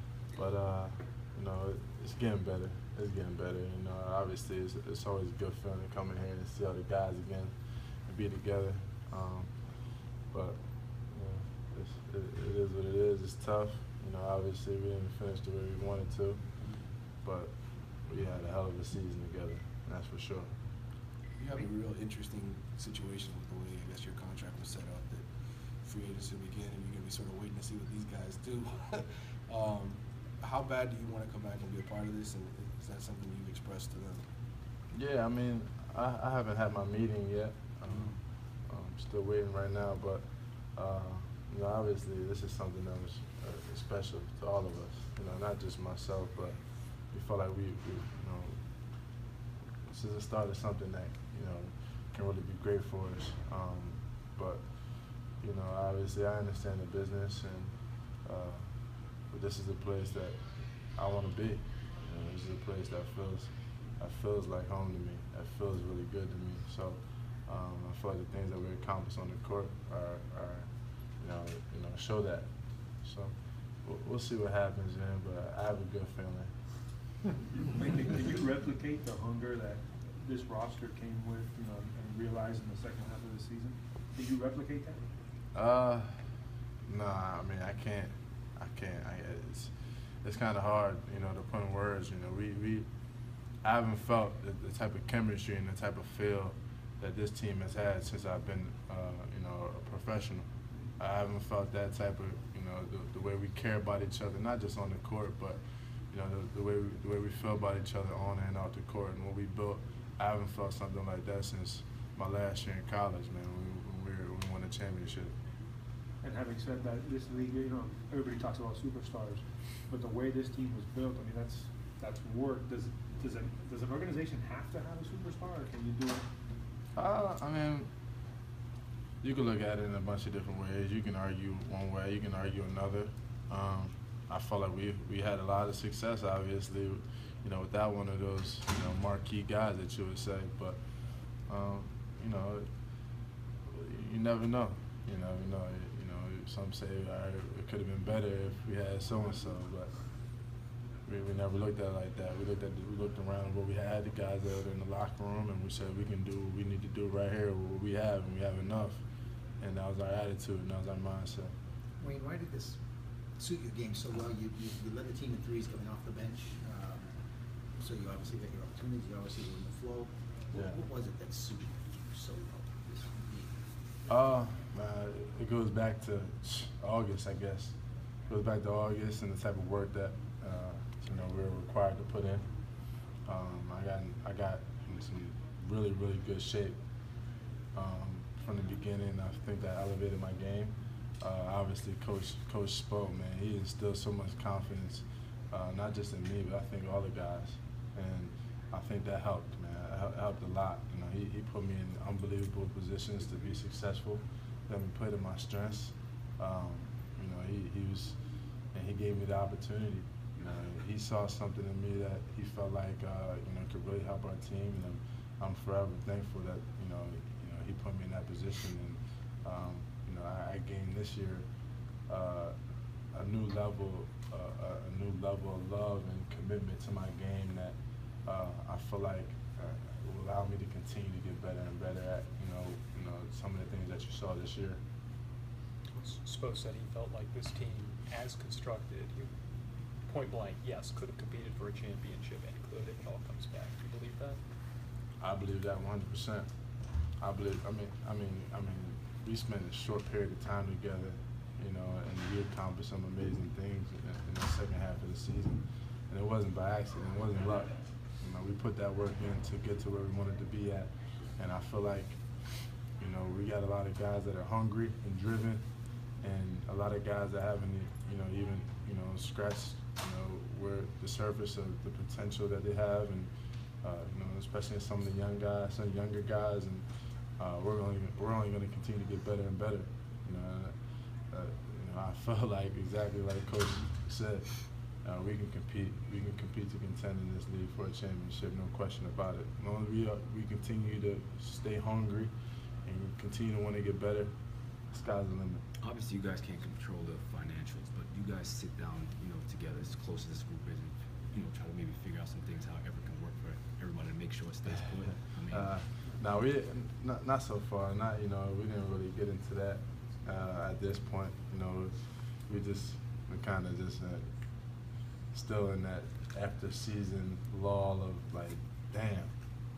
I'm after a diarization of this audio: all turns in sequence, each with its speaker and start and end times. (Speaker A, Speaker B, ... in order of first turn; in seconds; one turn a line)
Speaker A: 0.3-7.5
Speaker A: 8.1-9.6
Speaker A: 10.3-16.4
Speaker A: 17.2-20.5
Speaker B: 21.4-34.3
Speaker A: 34.9-48.6
Speaker A: 49.9-54.7
Speaker A: 55.4-57.7
Speaker A: 58.2-58.8
Speaker A: 59.3-72.5
Speaker A: 73.0-73.3
Speaker A: 73.8-76.5
Speaker C: 77.6-85.0
Speaker A: 85.5-86.2
Speaker A: 86.9-89.7
Speaker A: 90.2-92.8
Speaker A: 93.6-100.5
Speaker A: 101.0-105.6
Speaker A: 106.1-115.3
Speaker C: 116.2-126.2
Speaker A: 127.0-127.9
Speaker A: 129.2-140.8
Speaker A: 141.5-142.7
Speaker A: 143.7-150.0
Speaker A: 151.1-159.0
Speaker A: 159.6-161.5
Speaker D: 162.0-162.8
Speaker D: 163.4-167.2
Speaker D: 167.8-173.6
Speaker A: 174.1-177.8
Speaker A: 178.3-182.4
Speaker A: 183.3-186.8
Speaker A: 187.8-208.2
Speaker A: 208.7-221.4
Speaker A: 222.1-222.6
Speaker A: 223.1-234.8
Speaker E: 236.2-239.3
Speaker E: 240.1-244.4
Speaker A: 245.2-246.5
Speaker A: 247.2-262.2
Speaker A: 262.9-265.6
Speaker A: 266.2-273.3
Speaker A: 273.8-276.8
Speaker A: 277.4-280.7
Speaker A: 281.3-292.3
Speaker A: 292.9-294.3
Speaker A: 294.9-295.6
Speaker F: 295.8-305.7
Speaker A: 305.5-314.3
Speaker A: 315.3-319.3